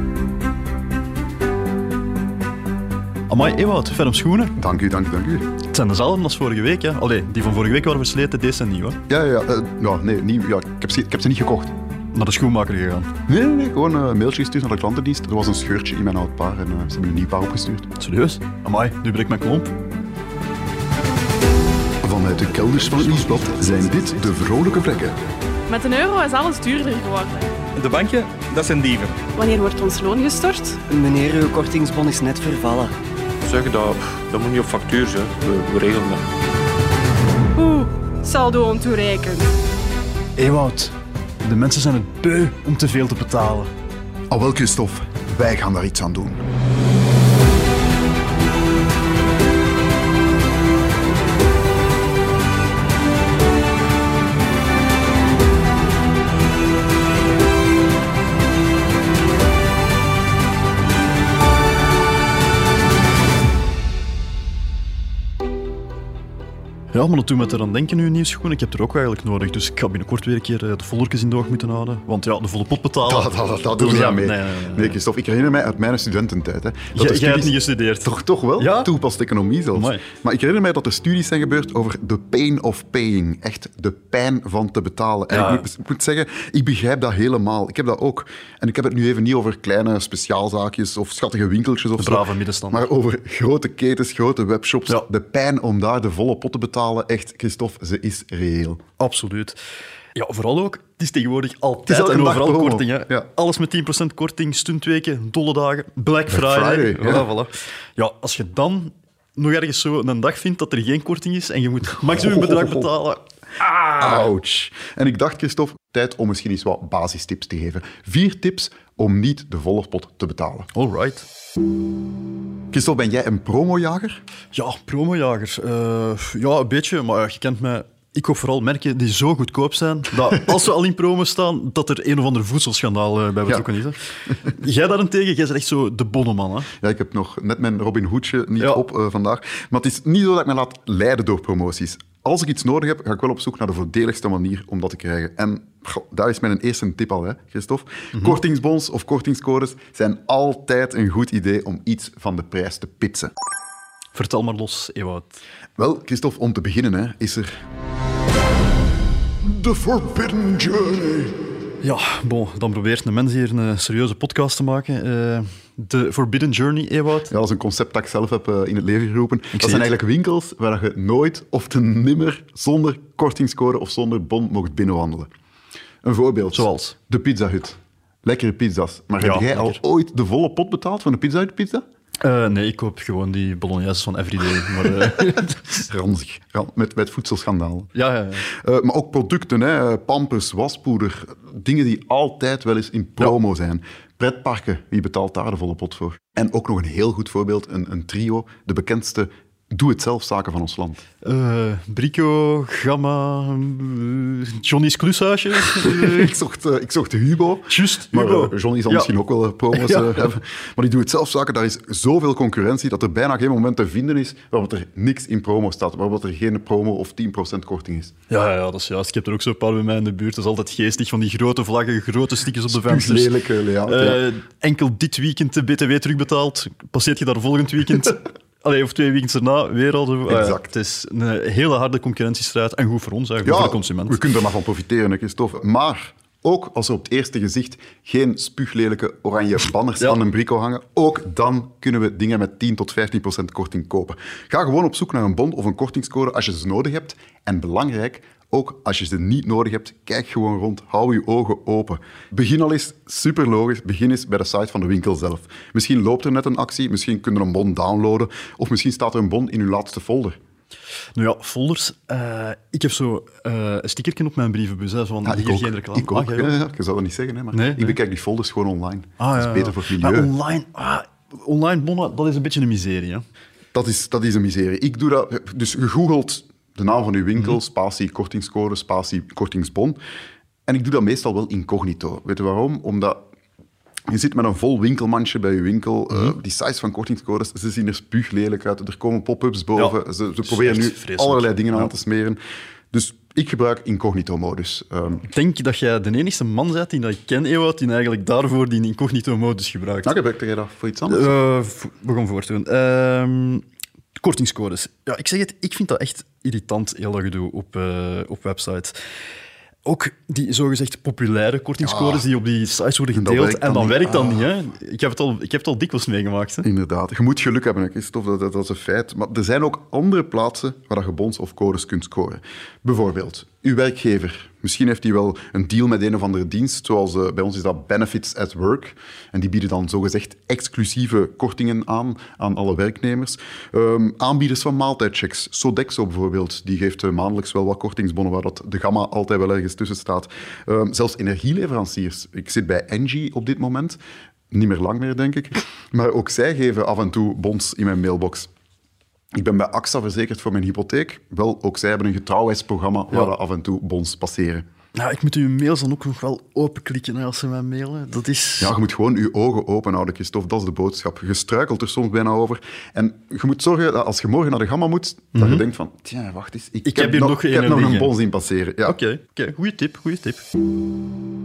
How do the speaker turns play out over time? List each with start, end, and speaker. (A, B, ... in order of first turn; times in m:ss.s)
0:03.3-0:04.6 A
0:04.6-0:05.5 B
0:05.7-0:09.0 A
0:09.1-0:11.7 B
0:12.1-0:13.1 A
0:13.3-0:17.9 B
0:18.0-0:19.7 A
0:22.0-0:25.2 B
0:25.7-0:27.5 C
0:27.8-0:29.1 D
0:29.3-0:30.8 C
0:30.9-0:32.9 E
0:33.4-0:36.2 F
0:34.6-0:35.8 D
0:37.6-0:39.5 C
0:40.4-0:43.7 A
0:44.3-0:46.4 B
1:06.9-1:15.0 A
1:13.0-1:38.8 B
1:16.9-1:18.9 A
1:19.7-1:20.0 A
1:25.3-1:25.7 A
1:32.0-1:32.9 A
1:39.0-1:39.6 A
1:40.1-1:54.1 A
1:41.8-1:43.3 B
1:46.3-1:47.3 B
1:52.1-1:52.9 B
1:53.9-2:00.7 B
2:00.7-2:01.2 A
2:02.7-2:04.2 B
2:04.5-2:16.7 A
2:16.8-2:33.3 B
2:34.1-2:35.4 A
2:35.8-2:37.5 B
2:39.4-2:41.4 B
2:41.8-2:47.3 A
2:47.3-2:55.3 B
2:49.5-2:49.9 A
2:56.0-3:01.8 B
2:56.5-2:56.9 A
2:59.2-2:59.8 A
3:02.2-3:05.9 A
3:05.8-3:21.0 B
3:07.9-3:08.5 A
3:21.2-3:26.3 A
3:25.7-3:38.1 B
3:27.7-3:29.1 A
3:29.7-3:30.3 A
3:38.3-3:54.2 A
3:42.7-3:44.3 B
3:50.3-3:50.7 B
3:53.4-4:20.4 B
4:21.2-4:26.5 A
4:25.2-4:30.3 B
4:27.5-4:28.0 A
4:29.2-4:33.2 A
4:33.7-4:40.0 B
4:40.7-4:43.2 B
4:44.1-4:52.4 B
4:49.7-4:51.9 A
4:52.9-4:55.2 B
4:55.3-5:00.2 A
5:00.0-5:01.3 B
5:01.1-5:03.6 A
5:04.2-5:09.0 A
5:09.8-5:16.7 A
5:11.8-5:12.2 B
5:13.1-5:14.5 B
5:16.6-5:44.0 B
5:44.5-5:48.5 B
5:49.4-5:54.6 B
5:54.9-5:58.7 A
5:58.6-6:09.0 B
6:05.3-6:05.6 A
6:06.8-6:08.1 A
6:08.8-6:10.4 A